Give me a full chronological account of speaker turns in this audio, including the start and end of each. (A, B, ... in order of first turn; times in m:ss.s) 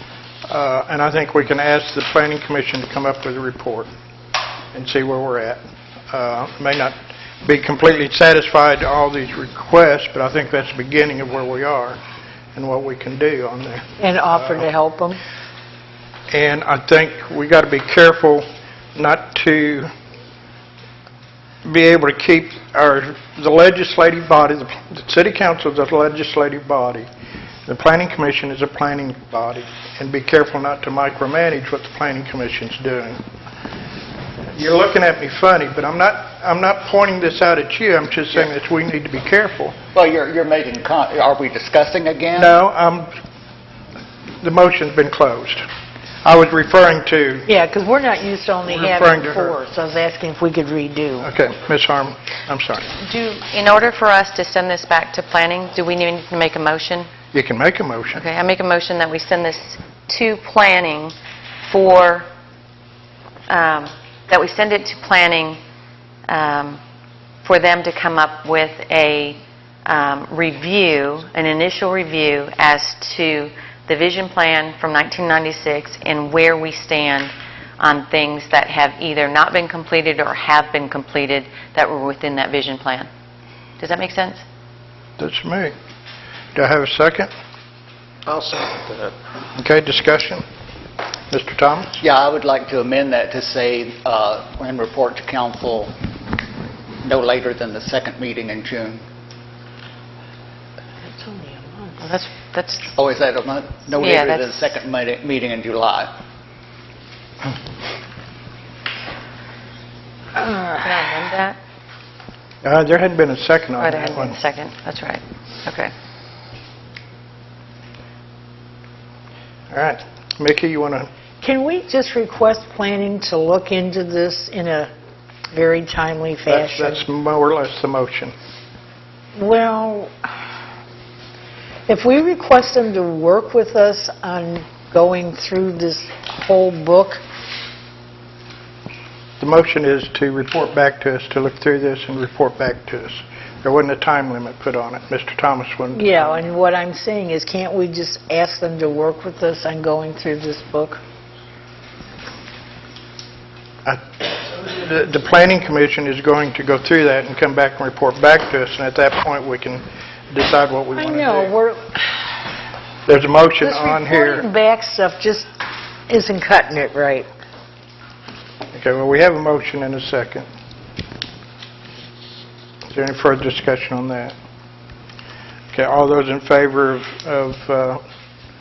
0:00.5-0:03.9 A
0:04.7-0:12.0 A
0:12.6-0:14.7 A
0:14.0-0:15.2 B
0:16.3-0:19.9 A
0:21.6-0:27.1 A
0:27.7-0:33.2 A
0:34.5-0:39.8 A
0:40.0-0:42.6 C
0:42.4-0:43.1 A
0:44.4-0:45.6 A
0:46.2-0:47.5 A
0:47.5-0:51.3 B
0:48.7-0:49.6 A
0:51.2-0:52.9 A
0:53.0-0:57.1 D
0:57.3-0:58.2 A
0:58.2-1:01.1 D
1:01.7-1:02.3 D
1:03.5-1:05.6 D
1:06.3-1:06.8 D
1:07.4-1:23.1 D
1:23.8-1:24.4 D
1:25.2-1:25.7 A
1:26.6-1:27.3 A
1:29.6-1:30.4 A
1:31.3-1:32.0 A
1:32.0-1:35.9 C
1:37.0-1:39.0 C
1:41.1-1:42.0 B
1:42.0-1:42.9 D
1:43.0-1:46.1 C
1:43.9-1:44.7 D
1:50.4-1:50.8 B
1:50.7-1:51.6 D
1:52.6-1:54.4 A
1:53.8-1:55.9 D
1:59.7-2:01.1 A
2:01.4-2:04.9 B
2:05.5-2:07.0 B
2:06.5-2:08.3 A
2:09.4-2:10.1 B
2:11.9-2:17.2 B
2:19.4-2:26.5 A
2:26.0-2:31.0 B
2:33.8-2:41.5 A
2:41.0-2:42.0 B
2:43.1-2:44.5 A
2:43.6-2:45.5 B
2:46.1-2:47.3 B
2:48.7-2:50.5 A
2:52.9-2:54.4 A
2:55.7-2:58.0 A